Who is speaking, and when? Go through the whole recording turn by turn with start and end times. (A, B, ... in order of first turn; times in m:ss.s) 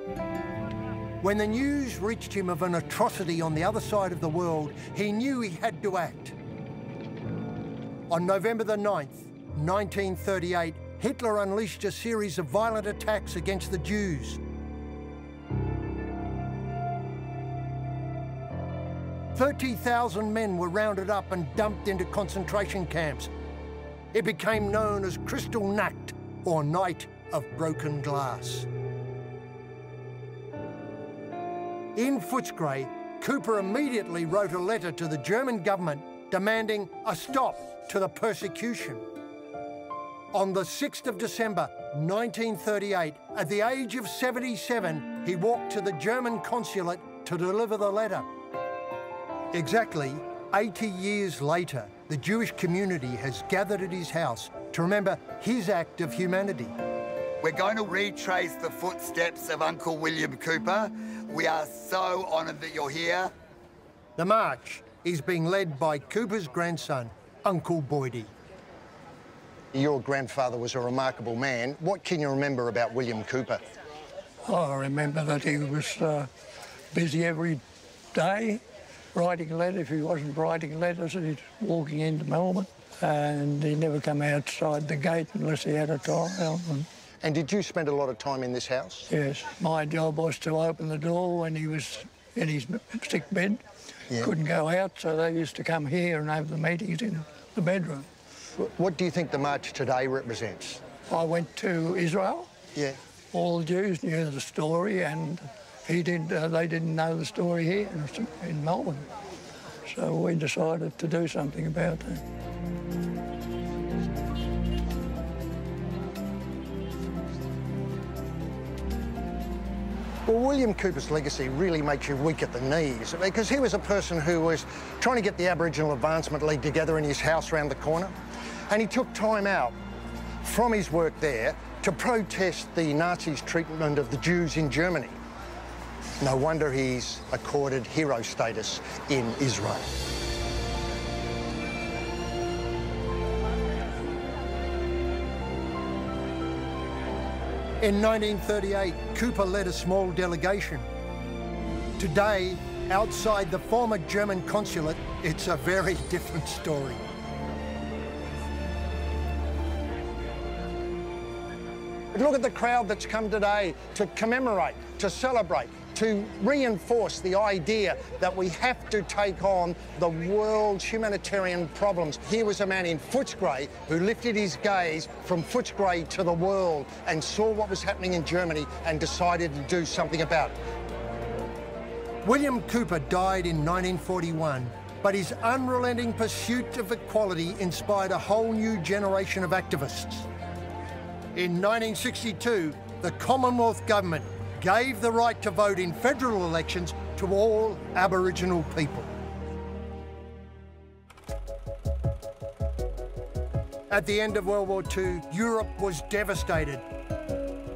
0:01.2-0:06.4 A
0:08.1-0:14.4 A
0:19.3-0:23.3 A
0:24.1-0:28.7 A
0:32.0-0:39.1 A
0:40.3-0:48.3 A
0:49.5-0:56.7 A
0:57.4-1:03.3 B
1:04.2-1:08.3 A
1:09.7-1:13.6 C
1:14.5-1:16.3 D
1:16.9-1:17.6 D
1:18.1-1:18.6 D
1:19.2-1:26.9 D
1:27.2-1:29.1 C
1:29.1-1:38.1 D
1:38.6-1:40.8 C
1:41.1-1:42.5 D
1:43.3-1:49.1 D
1:49.9-1:52.2 D
2:00.3-2:08.1 C
2:08.7-2:09.8 C
2:10.4-2:15.2 C
2:16.2-2:19.9 C
2:27.8-2:30.9 A
2:32.0-2:37.0 A
2:42.2-3:00.6 C
3:02.2-3:10.3 A
3:11.4-3:19.1 A
3:23.9-3:26.8 A